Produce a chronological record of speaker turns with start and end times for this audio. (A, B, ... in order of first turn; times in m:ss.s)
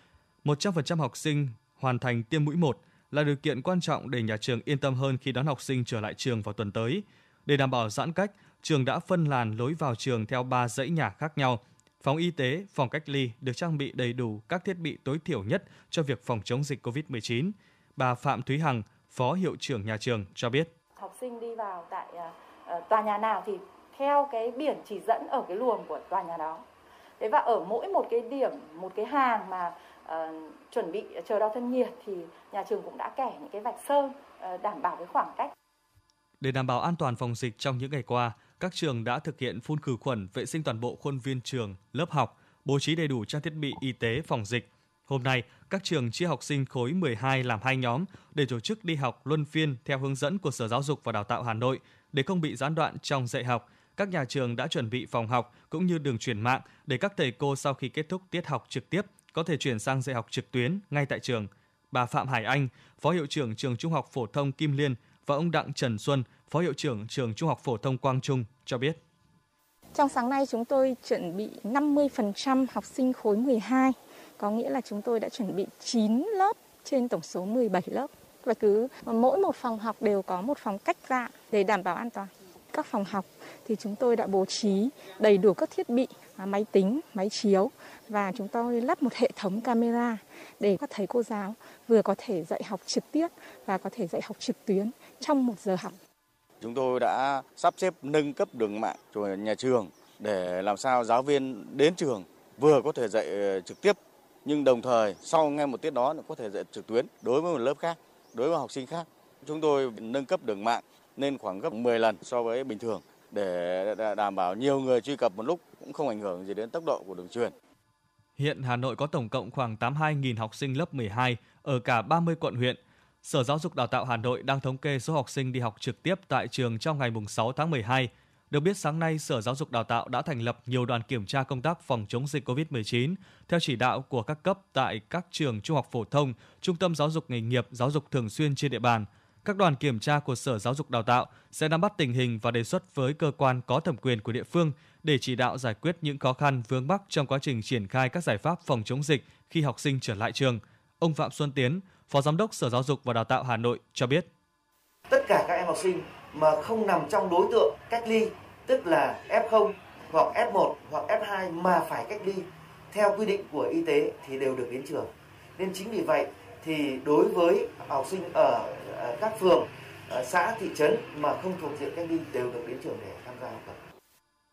0:00.4-0:20.7 A
0:21.0-0:26.6 B
0:27.2-0:35.5 B
0:36.4-1:09.0 A
1:09.9-1:36.0 C
1:36.6-1:57.5 D
1:58.4-2:34.3 A
2:35.1-2:53.8 E